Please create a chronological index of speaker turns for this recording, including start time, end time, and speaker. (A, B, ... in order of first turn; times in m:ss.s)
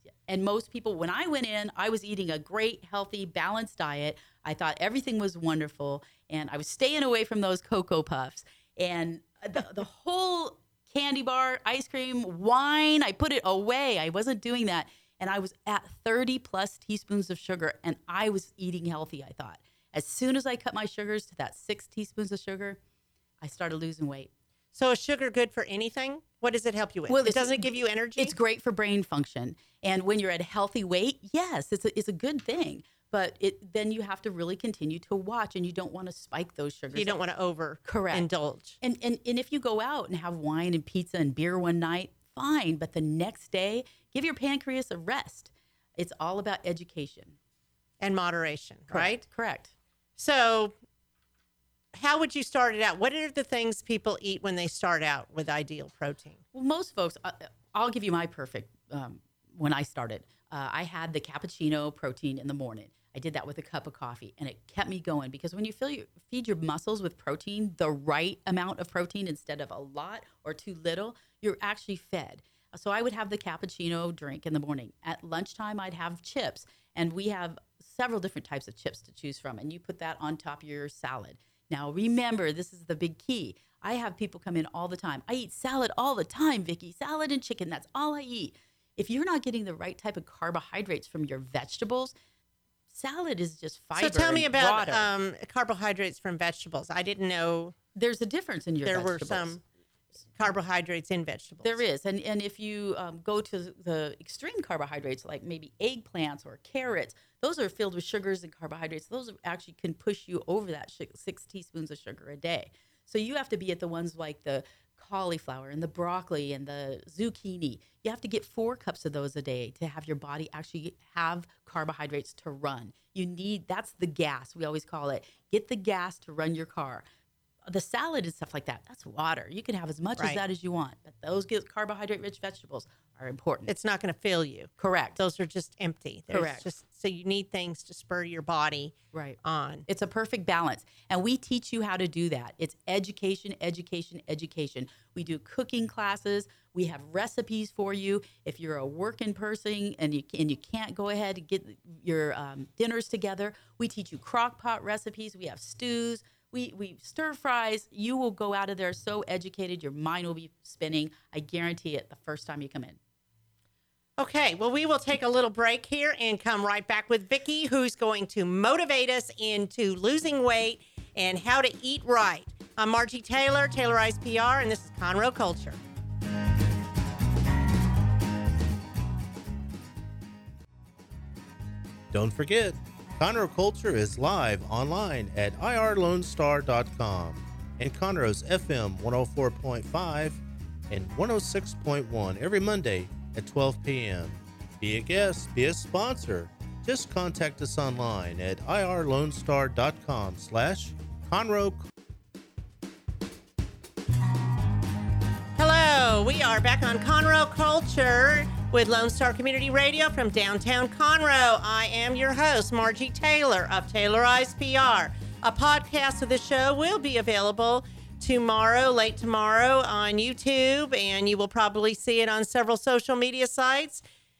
0:00.3-0:22.8 A
0:23.4-0:24.3 A
0:24.8-0:28.4 B
0:27.1-0:37.2 A
0:37.0-0:38.8 B
0:37.8-0:38.3 A
0:38.8-0:47.4 A
0:48.0-0:49.2 B
0:48.9-0:49.7 A
0:50.2-0:50.7 B
0:51.9-0:56.4 B
0:56.5-1:32.2 A
1:32.9-1:35.1 A
1:34.0-1:37.8 B
1:38.0-1:39.6 A
1:38.9-1:39.6 B
1:40.4-1:41.8 B
1:41.6-2:07.0 A
2:07.7-2:13.7 A
2:13.7-2:19.8 B
2:14.8-2:15.2 A
2:16.3-2:16.6 A
2:19.1-2:43.0 A
2:44.2-2:55.8 B
3:02.1-3:21.9 C
3:25.6-3:44.0 B